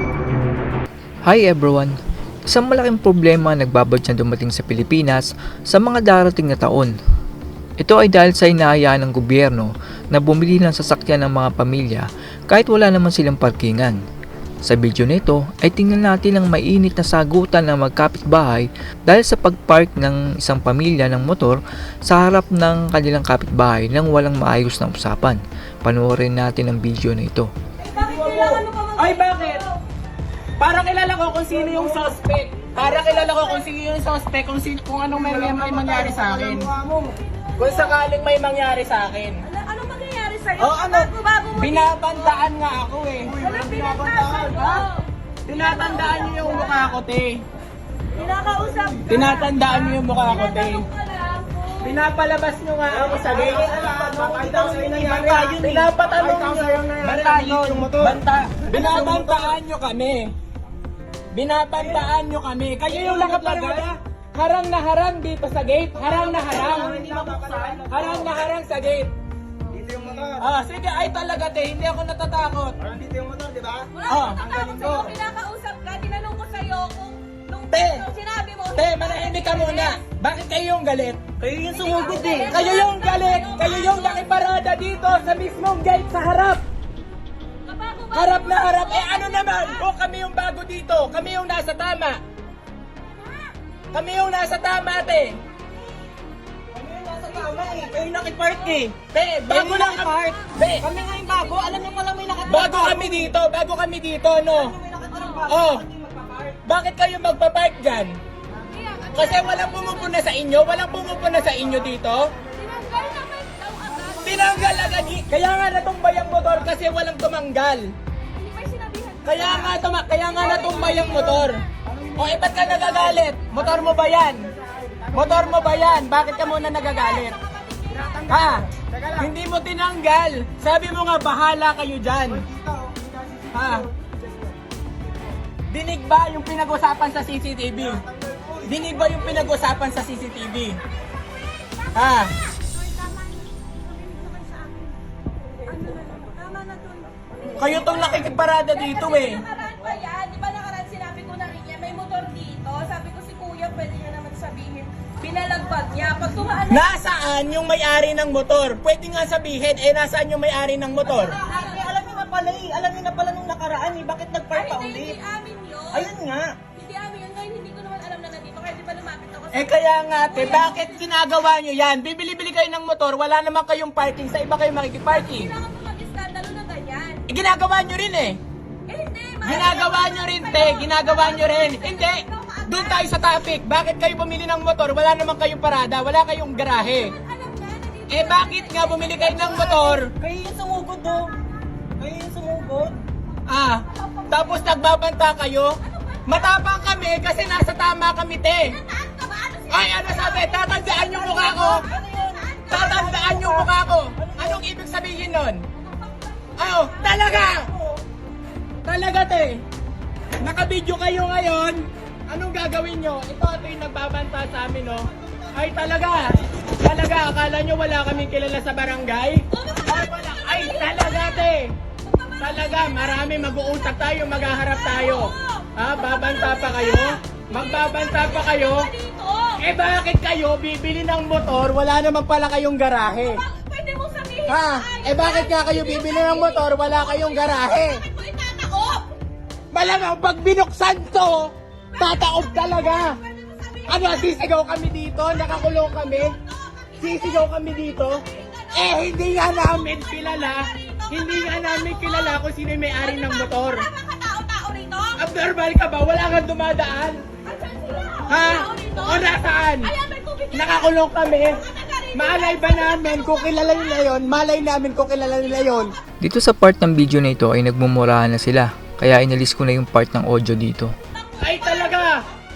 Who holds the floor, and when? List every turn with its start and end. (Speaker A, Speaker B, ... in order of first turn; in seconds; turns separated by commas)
Speaker A: 1.3-2.0, Speaker A: 2.5-7.0, Speaker A: 7.8-14.0, Speaker A: 14.7-27.5, Speaker B: 27.9-29.8, Speaker C: 27.9-29.6, Speaker D: 28.2-28.6, Speaker C: 30.6-36.7, Speaker B: 32.8-33.7, Speaker D: 35.5-37.0, Speaker B: 37.1-38.0, Speaker C: 37.6-39.5, Speaker B: 39.5-42.5, Speaker C: 40.6-43.5, Speaker B: 43.3-46.9, Speaker D: 43.5-44.6, Speaker C: 44.5-44.8, Speaker C: 45.5-47.4, Speaker B: 48.2-52.0, Speaker C: 49.1-50.9, Speaker C: 51.8-60.3, Speaker D: 53.0-59.5, Speaker C: 61.3-67.0, Speaker D: 62.9-63.9, Speaker D: 66.0-68.3, Speaker B: 66.8-67.2, Speaker C: 67.9-69.1, Speaker D: 69.7-70.5, Speaker C: 70.4-72.8, Speaker D: 72.8-73.9, Speaker B: 73.9-80.0, Speaker C: 74.1-75.0, Speaker D: 74.8-75.1, Speaker C: 77.7-78.0, Speaker C: 78.8-81.3, Speaker D: 81.4-82.5, Speaker B: 81.7-84.4, Speaker C: 81.9-86.6, Speaker B: 87.7-89.8, Speaker C: 88.1-92.2, Speaker C: 93.9-95.4, Speaker D: 96.7-99.0, Speaker B: 98.5-98.8, Speaker C: 99.1-100.8, Speaker D: 99.5-103.3, Speaker B: 101.2-101.8, Speaker C: 102.5-104.8, Speaker D: 104.5-106.6, Speaker B: 105.1-105.4, Speaker C: 105.5-105.9, Speaker C: 106.7-108.2, Speaker B: 108.6-110.3, Speaker C: 109.1-112.3, Speaker B: 112.4-115.2, Speaker C: 114.2-117.9, Speaker B: 118.4-121.5, Speaker C: 119.2-121.6, Speaker D: 121.9-123.1, Speaker C: 122.2-124.5, Speaker B: 122.5-123.2, Speaker C: 125.1-127.4, Speaker B: 125.9-128.5, Speaker C: 128.3-132.5, Speaker D: 132.6-133.5, Speaker C: 133.5-133.9, Speaker C: 135.7-138.1, Speaker C: 138.6-140.8, Speaker B: 141.4-144.9, Speaker C: 141.9-142.3, Speaker B: 145.7-156.9, Speaker C: 147.5-149.4, Speaker C: 156.7-161.4, Speaker D: 161.1-165.2, Speaker B: 161.4-162.2, Speaker B: 164.5-166.1, Speaker D: 165.9-166.6, Speaker B: 166.7-171.0, Speaker C: 169.5-175.6, Speaker B: 175.1-177.2, Speaker C: 177.3-178.4, Speaker B: 178.9-183.5, Speaker C: 179.4-187.1, Speaker B: 186.8-190.0, Speaker C: 188.1-190.1, Speaker D: 189.4-191.3, Speaker D: 192.0-193.0, Speaker C: 193.5-198.8, Speaker B: 194.0-194.5, Speaker B: 195.9-197.5, Speaker B: 198.7-203.5, Speaker C: 199.7-201.9, Speaker D: 201.7-204.6, Speaker C: 202.7-205.6, Speaker B: 205.8-207.6, Speaker C: 206.6-207.7, Speaker C: 208.8-209.6, Speaker C: 210.4-221.7, Speaker B: 219.5-229.6, Speaker C: 222.4-228.9, Speaker C: 229.6-233.4, Speaker B: 233.2-239.1, Speaker C: 234.5-238.0, Speaker C: 239.7-243.2, Speaker B: 242.0-244.5, Speaker C: 243.9-246.3, Speaker B: 245.4-247.5, Speaker C: 247.0-248.2, Speaker B: 248.3-252.4, Speaker C: 248.7-253.9, Speaker B: 253.0-255.2, Speaker C: 255.2-257.2, Speaker B: 257.5-264.1, Speaker C: 258.3-259.9, Speaker C: 260.5-261.6, Speaker C: 262.1-265.9, Speaker A: 266.2-270.9, Speaker B: 271.2-272.1, Speaker C: 271.4-272.1